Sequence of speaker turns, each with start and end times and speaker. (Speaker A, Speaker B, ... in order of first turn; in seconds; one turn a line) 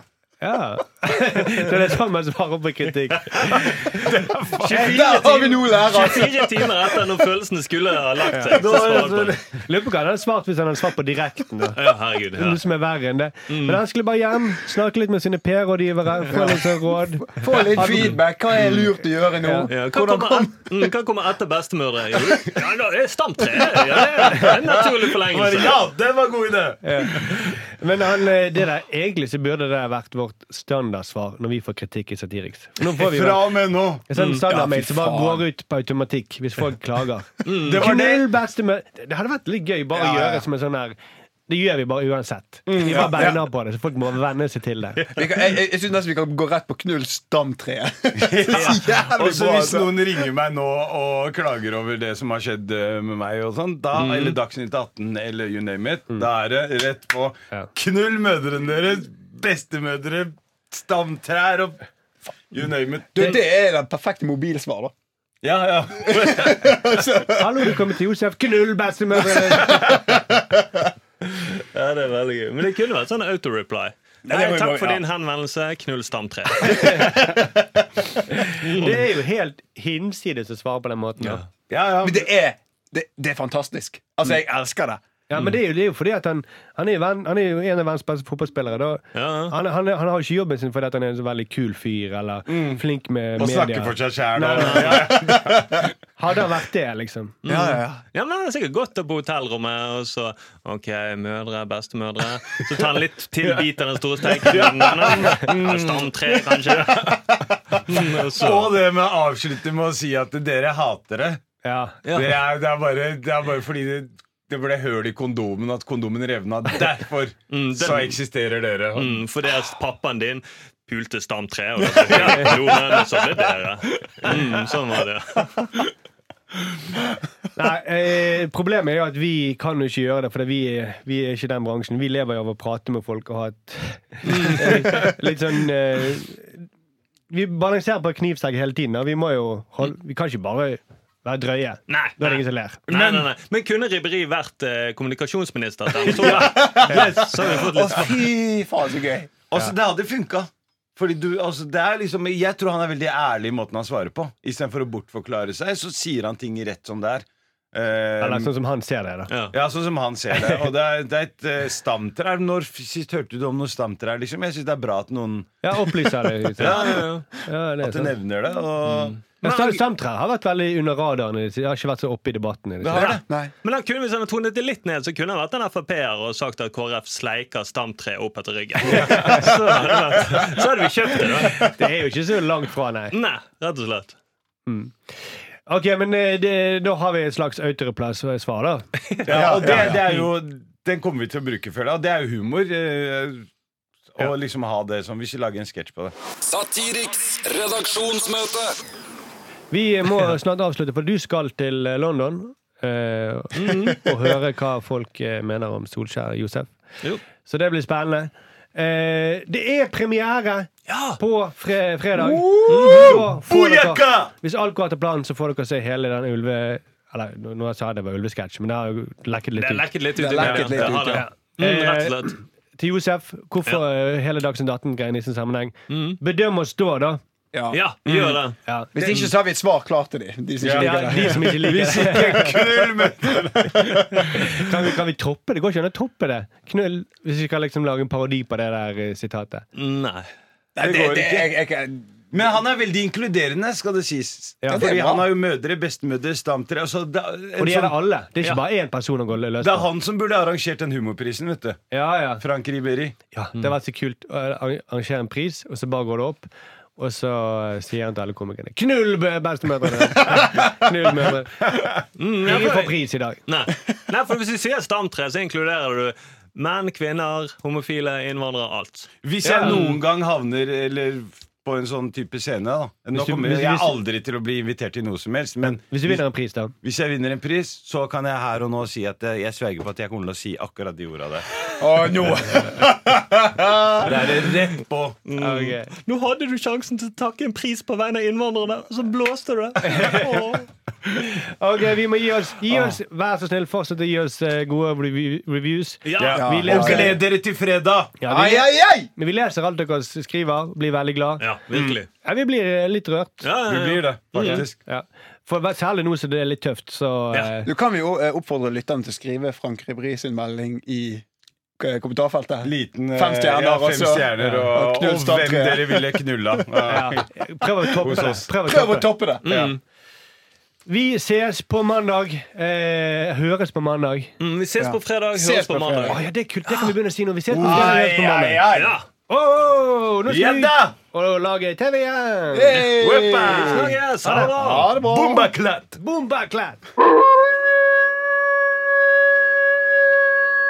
Speaker A: 0.4-3.9
Speaker B: 3.5-5.0
Speaker C: 4.6-7.0
Speaker D: 4.6-9.4
Speaker B: 8.5-9.5
Speaker A: 9.6-11.8
Speaker D: 11.7-12.6
Speaker A: 12.3-18.2
Speaker D: 13.5-13.8
Speaker C: 16.3-20.9
Speaker A: 19.4-19.7
Speaker D: 19.7-25.8
Speaker B: 23.9-27.5
Speaker A: 26.8-33.5
Speaker B: 32.8-34.0
Speaker A: 34.1-40.9
Speaker D: 34.1-34.4
Speaker C: 34.5-35.4
Speaker D: 37.4-37.8
Speaker B: 37.5-38.3
Speaker C: 39.9-40.4
Speaker A: 41.5-45.1
Speaker C: 42.7-43.4
Speaker C: 45.1-50.0
Speaker B: 48.2-61.8
Speaker D: 48.5-48.8
Speaker B: 62.5-63.4
Speaker C: 63.1-64.9
Speaker B: 65.4-67.1
Speaker C: 66.0-67.7
Speaker A: 67.3-70.0
Speaker C: 69.6-70.4
Speaker D: 71.4-77.3
Speaker C: 74.2-75.0
Speaker A: 76.7-77.5
Speaker A: 78.3-81.4
Speaker D: 78.6-79.0
Speaker B: 81.7-82.3
Speaker C: 82.0-85.0
Speaker A: 85.3-95.1
Speaker D: 89.1-89.5
Speaker B: 92.5-92.8
Speaker B: 93.4-95.9
Speaker D: 94.5-95.1
Speaker C: 95.2-95.8
Speaker A: 96.2-97.4
Speaker D: 97.4-107.2
Speaker C: 97.5-98.0
Speaker B: 104.3-111.4
Speaker D: 107.8-108.7
Speaker A: 111.6-112.0
Speaker D: 112.0-112.3
Speaker B: 112.1-119.2
Speaker D: 117.5-118.2
Speaker D: 118.9-125.9
Speaker B: 122.1-122.8
Speaker A: 127.5-136.6
Speaker D: 134.3-135.1
Speaker A: 137.3-142.8
Speaker D: 141.9-148.3
Speaker B: 142.9-143.2
Speaker B: 146.0-147.9
Speaker C: 146.2-149.3
Speaker B: 149.5-158.5
Speaker A: 158.2-159.3
Speaker D: 159.3-159.5
Speaker B: 159.5-165.9
Speaker A: 160.3-160.6
Speaker A: 165.6-168.1
Speaker B: 166.6-167.1
Speaker D: 166.6-167.2
Speaker B: 167.8-169.8
Speaker D: 168.8-169.2
Speaker A: 169.4-173.2
Speaker B: 172.8-173.2
Speaker D: 172.9-181.7
Speaker C: 173.3-173.5
Speaker A: 178.8-179.5
Speaker A: 181.6-183.2
Speaker D: 183.1-184.2
Speaker A: 184.7-185.0
Speaker A: 185.7-189.9
Speaker B: 189.2-193.4
Speaker C: 189.3-190.0
Speaker D: 189.6-190.2
Speaker B: 194.1-196.1
Speaker E: 196.4-198.7
Speaker A: 199.7-206.7
Speaker D: 203.5-204.0
Speaker A: 207.3-227.2
Speaker D: 210.9-211.2
Speaker C: 212.2-213.2
Speaker D: 212.7-213.2
Speaker B: 212.8-214.3
Speaker D: 219.6-222.4
Speaker C: 220.2-221.2
Speaker B: 220.4-220.8
Speaker D: 225.9-226.2
Speaker C: 227.5-228.4
Speaker D: 227.7-228.6
Speaker A: 228.7-228.9
Speaker C: 228.9-234.2
Speaker B: 229.0-229.3
Speaker B: 230.6-234.5
Speaker A: 230.7-232.6
Speaker A: 234.1-239.7
Speaker D: 239.7-240.3
Speaker C: 240.8-242.3
Speaker B: 240.8-241.5
Speaker B: 242.3-248.6
Speaker C: 244.7-245.3
Speaker A: 247.6-249.9
Speaker B: 249.6-251.9
Speaker A: 251.9-252.4
Speaker B: 252.4-253.2
Speaker A: 253.3-261.7
Speaker D: 262.2-270.0
Speaker A: 262.4-263.4
Speaker B: 269.2-276.2
Speaker A: 269.4-269.9
Speaker A: 273.1-274.0
Speaker A: 275.6-276.7
Speaker B: 276.8-281.5
Speaker C: 281.8-284.2
Speaker B: 282.6-285.2
Speaker D: 285.2-290.6
Speaker A: 285.4-285.9
Speaker A: 289.8-290.6
Speaker A: 291.3-297.2
Speaker D: 296.0-297.0
Speaker B: 296.2-298.1
Speaker C: 296.2-297.2
Speaker A: 298.2-301.5
Speaker C: 298.3-299.1
Speaker D: 301.4-302.1
Speaker A: 302.2-303.4
Speaker D: 303.4-304.6
Speaker B: 303.6-304.8
Speaker A: 304.4-307.7
Speaker C: 307.6-311.2
Speaker C: 311.8-316.2
Speaker B: 312.6-317.3
Speaker A: 316.8-319.2
Speaker B: 318.0-318.4
Speaker C: 318.1-319.7
Speaker D: 319.4-319.8
Speaker A: 320.9-324.3
Speaker D: 324.4-326.9
Speaker C: 324.8-326.2
Speaker A: 326.0-328.6
Speaker B: 327.5-328.9
Speaker C: 327.5-328.9
Speaker D: 328.7-329.0
Speaker A: 329.3-332.9
Speaker B: 330.3-330.9
Speaker C: 332.5-335.5
Speaker B: 332.9-333.9
Speaker D: 333.0-334.9
Speaker A: 334.2-334.6
Speaker B: 334.6-336.0
Speaker A: 336.0-336.8